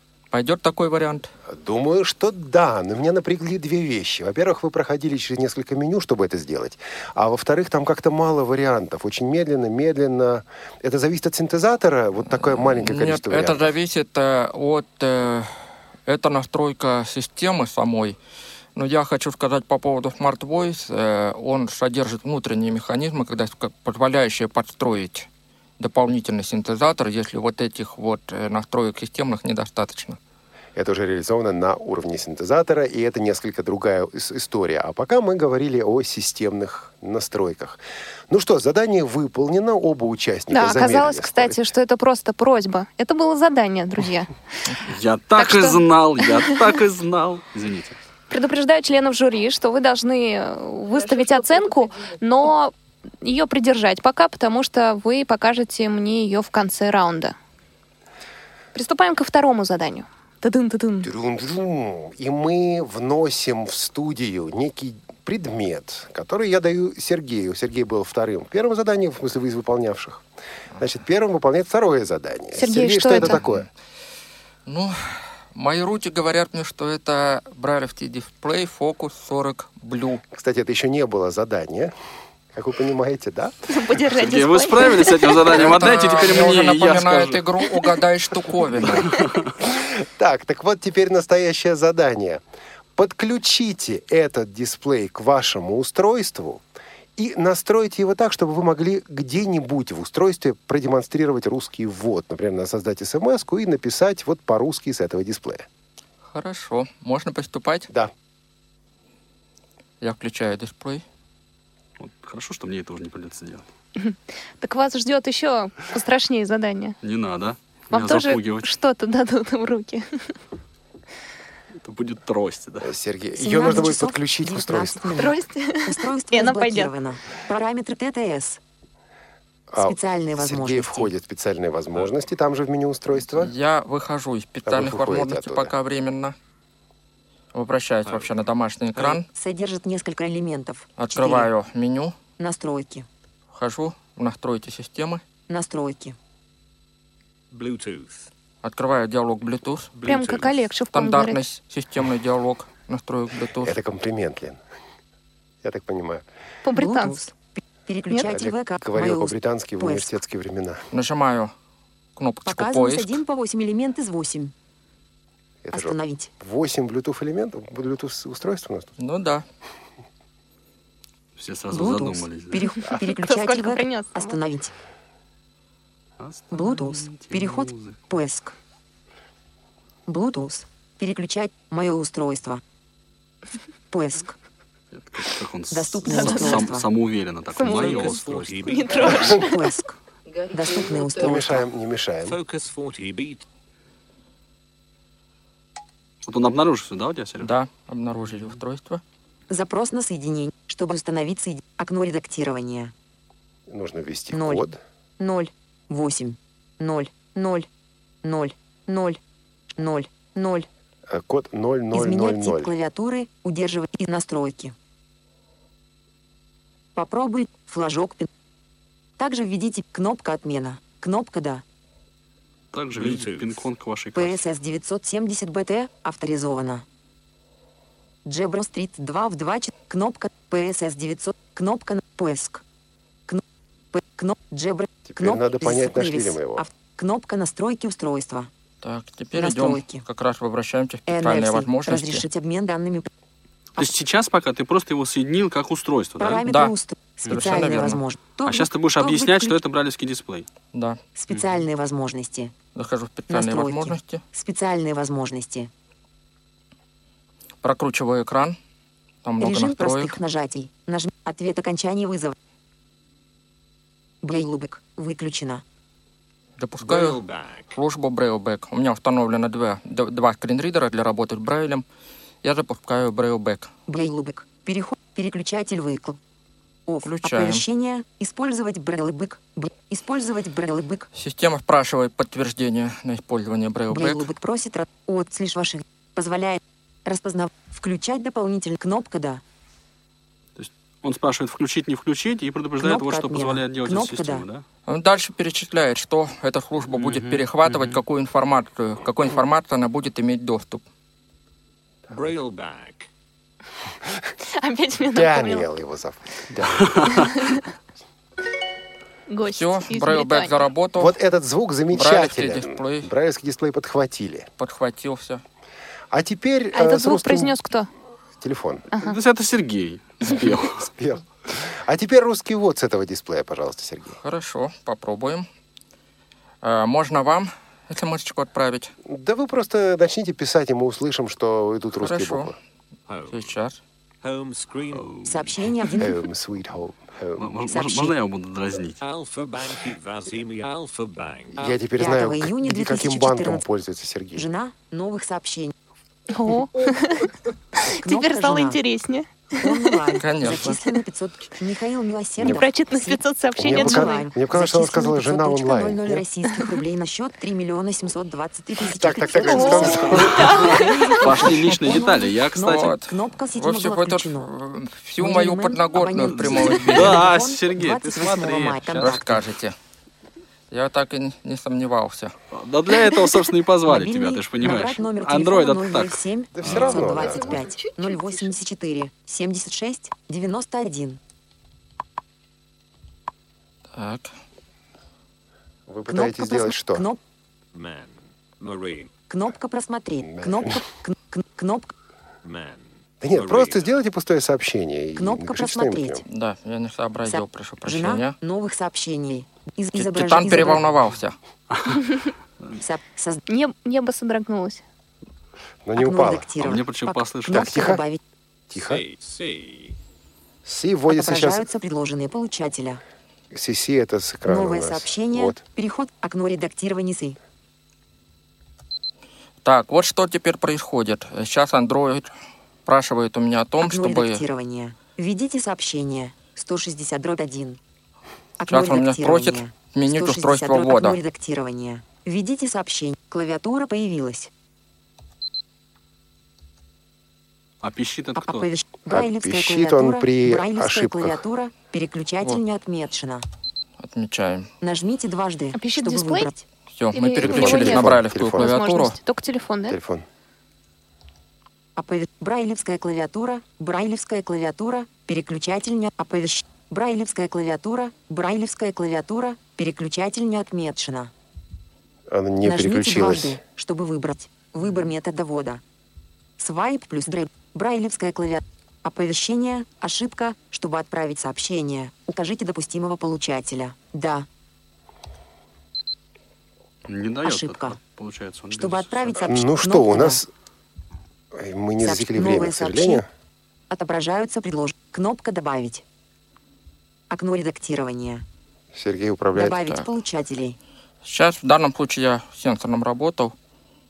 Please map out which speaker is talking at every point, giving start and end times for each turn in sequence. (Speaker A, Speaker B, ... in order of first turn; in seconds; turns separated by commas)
Speaker A: 0.3-1.3, Speaker B: 1.5-13.6, Speaker A: 12.3-18.2, Speaker A: 18.8-25.3, Speaker A: 25.8-30.2, Speaker B: 30.8-41.6, Speaker C: 40.5-44.3, Speaker D: 44.9-48.0, Speaker C: 45.4-45.8, Speaker C: 48.3-57.4, Speaker C: 58.8-61.1, Speaker B: 61.0-70.2, Speaker B: 70.8-73.7, Speaker C: 72.6-73.4, Speaker A: 73.3-73.7, Speaker A: 74.7-75.0, Speaker A: 75.5-80.2, Speaker B: 80.3-81.9, Speaker B: 82.5-83.5, Speaker C: 83.7-85.6, Speaker D: 84.2-87.4, Speaker A: 85.6-89.2, Speaker D: 89.2-89.5, Speaker B: 89.7-92.4, Speaker B: 93.0-96.6, Speaker B: 97.2-105.7, Speaker A: 106.2-107.9, Speaker A: 110.0-111.0, Speaker D: 112.0-113.7, Speaker C: 114.0-117.0, Speaker D: 117.0-118.7, Speaker C: 117.9-120.1, Speaker D: 121.8-122.9, Speaker B: 122.8-125.2, Speaker E: 123.4-128.6, Speaker C: 125.2-126.9, Speaker B: 129.7-133.5, Speaker E: 129.8-131.1, Speaker A: 133.4-136.3, Speaker B: 134.7-135.7, Speaker A: 137.5-139.3, Speaker F: 138.0-138.4, Speaker F: 138.9-139.2, Speaker E: 139.3-141.5, Speaker A: 141.0-142.2, Speaker E: 142.4-143.1, Speaker A: 143.5-145.2, Speaker E: 145.5-146.2, Speaker F: 147.5-148.3, Speaker A: 148.6-149.9, Speaker F: 149.9-150.7, Speaker C: 150.1-151.4, Speaker A: 150.9-153.8, Speaker B: 153.6-154.6, Speaker B: 155.6-156.2, Speaker C: 156.6-157.2, Speaker E: 156.8-160.2, Speaker B: 158.3-160.8, Speaker A: 160.9-161.5, Speaker A: 162.2-163.2, Speaker E: 162.4-164.5, Speaker B: 165.6-168.9, Speaker E: 165.7-166.3, Speaker A: 169.0-169.4, Speaker D: 171.4-172.6, Speaker E: 171.7-174.7, Speaker C: 172.9-174.4, Speaker D: 176.2-178.0, Speaker E: 176.5-178.5, Speaker E: 180.1-182.6, Speaker E: 183.9-184.3, Speaker D: 184.9-189.2, Speaker E: 185.7-186.8, Speaker C: 186.1-186.7, Speaker C: 187.5-189.6, Speaker F: 187.6-189.4, Speaker E: 189.3-189.9, Speaker E: 190.5-191.7, Speaker B: 191.1-192.4, Speaker F: 192.2-193.4, Speaker D: 196.2-197.5, Speaker A: 197.4-199.0, Speaker E: 199.5-202.9, Speaker B: 203.7-204.8, Speaker E: 204.3-204.6, Speaker E: 205.2-207.7, Speaker E: 208.2-209.2, Speaker E: 209.8-210.7, Speaker B: 211.1-212.7, Speaker E: 211.9-214.7, Speaker E: 217.0-218.3, Speaker E: 219.2-221.6, Speaker D: 222.7-224.4, Speaker F: 222.9-223.7, Speaker E: 224.2-226.8, Speaker E: 228.3-232.6, Speaker E: 233.9-238.5, Speaker B: 235.1-236.7, Speaker A: 238.8-242.2, Speaker E: 239.3-240.0, Speaker E: 241.1-243.1, Speaker D: 243.8-246.4, Speaker E: 246.2-249.6, Speaker A: 246.4-246.7, Speaker A: 247.3-248.0, Speaker D: 247.3-247.6, Speaker D: 248.4-250.5, Speaker A: 250.7-251.0, Speaker E: 251.2-252.5, Speaker A: 252.8-254.2, Speaker E: 253.3-255.7, Speaker A: 257.6-258.6, Speaker A: 259.2-260.2, Speaker E: 259.4-262.4, Speaker E: 264.2-265.6, Speaker A: 266.6-267.2, Speaker F: 266.8-267.8, Speaker A: 267.7-271.8, Speaker A: 272.4-273.7, Speaker E: 273.9-276.2, Speaker E: 276.9-281.1, Speaker A: 277.0-277.6, Speaker A: 281.1-284.3, Speaker E: 283.9-289.4, Speaker D: 290.6-294.6, Speaker E: 292.8-294.4, Speaker A: 294.9-300.8, Speaker D: 296.9-298.0, Speaker F: 302.1-303.1, Speaker C: 304.5-305.7, Speaker B: 305.1-307.3, Speaker D: 306.8-307.1, Speaker C: 307.1-307.6, Speaker C: 309.3-310.6, Speaker A: 309.5-311.1, Speaker B: 311.0-314.5, Speaker A: 311.9-313.1, Speaker A: 314.6-315.4, Speaker B: 316.1-317.6, Speaker C: 316.7-317.9, Speaker B: 318.4-318.9, Speaker D: 319.0-320.9, Speaker B: 320.6-324.2, Speaker A: 324.2-325.5, Speaker A: 326.6-328.9, Speaker B: 329.1-332.6, Speaker A: 332.0-332.5, Speaker F: 333.1-333.5, Speaker A: 333.3-333.8, Speaker F: 334.2-335.7, Speaker E: 335.3-336.1, Speaker B: 336.0-337.5, Speaker D: 337.4-339.0, Speaker E: 337.7-338.1, Speaker F: 339.0-342.0, Speaker B: 341.5-344.5, Speaker E: 342.0-343.6, Speaker E: 344.4-345.7, Speaker C: 346.3-347.3, Speaker C: 347.8-349.9, Speaker E: 348.0-348.8, Speaker E: 349.6-364.5, Speaker A: 350.2-350.8, Speaker C: 352.5-354.2, Speaker B: 353.6-356.2, Speaker B: 359.0-360.8, Speaker C: 359.4-361.2, Speaker D: 361.2-362.9, Speaker A: 362.6-367.2, Speaker E: 365.2-369.4, Speaker D: 366.5-369.2, Speaker A: 369.0-369.8, Speaker A: 370.7-372.3, Speaker D: 372.5-377.1, Speaker E: 373.9-381.2, Speaker B: 376.6-377.7, Speaker A: 384.0-384.3, Speaker B: 385.9-387.1, Speaker E: 386.1-387.2, Speaker F: 387.7-389.1, Speaker E: 389.3-391.9, Speaker B: 390.2-390.8, Speaker F: 392.4-393.9, Speaker B: 393.2-396.2, Speaker E: 395.2-396.2, Speaker A: 396.3-398.4, Speaker E: 397.3-400.9, Speaker A: 400.0-401.4, Speaker D: 401.7-402.0, Speaker E: 402.8-403.4, Speaker C: 403.5-404.8, Speaker B: 405.9-406.5, Speaker E: 406.0-408.2, Speaker D: 406.6-407.7, Speaker B: 407.5-408.0, Speaker B: 408.7-409.0, Speaker F: 408.7-410.0, Speaker B: 410.6-411.7, Speaker E: 411.1-413.0, Speaker B: 413.5-415.6, Speaker E: 414.5-417.4, Speaker A: 419.6-422.3, Speaker A: 422.9-424.4, Speaker E: 423.8-427.8, Speaker E: 428.6-434.5, Speaker A: 428.7-431.2, Speaker D: 437.8-438.7, Speaker E: 438.4-443.4, Speaker B: 439.1-441.4, Speaker A: 444.0-444.7, Speaker E: 444.8-446.6, Speaker C: 445.7-446.5, Speaker A: 446.9-449.2, Speaker C: 447.1-450.0, Speaker B: 447.4-448.7, Speaker B: 449.9-450.2, Speaker E: 452.0-461.3, Speaker B: 462.3-463.6, Speaker E: 462.6-465.8, Speaker E: 466.6-474.5, Speaker D: 477.1-479.3, Speaker E: 477.4-478.0, Speaker E: 478.7-480.4, Speaker B: 479.4-480.5, Speaker B: 481.5-483.3, Speaker E: 482.0-483.2, Speaker E: 483.9-486.0, Speaker E: 487.3-488.4, Speaker B: 488.9-489.8, Speaker E: 489.6-490.8, Speaker A: 491.2-493.5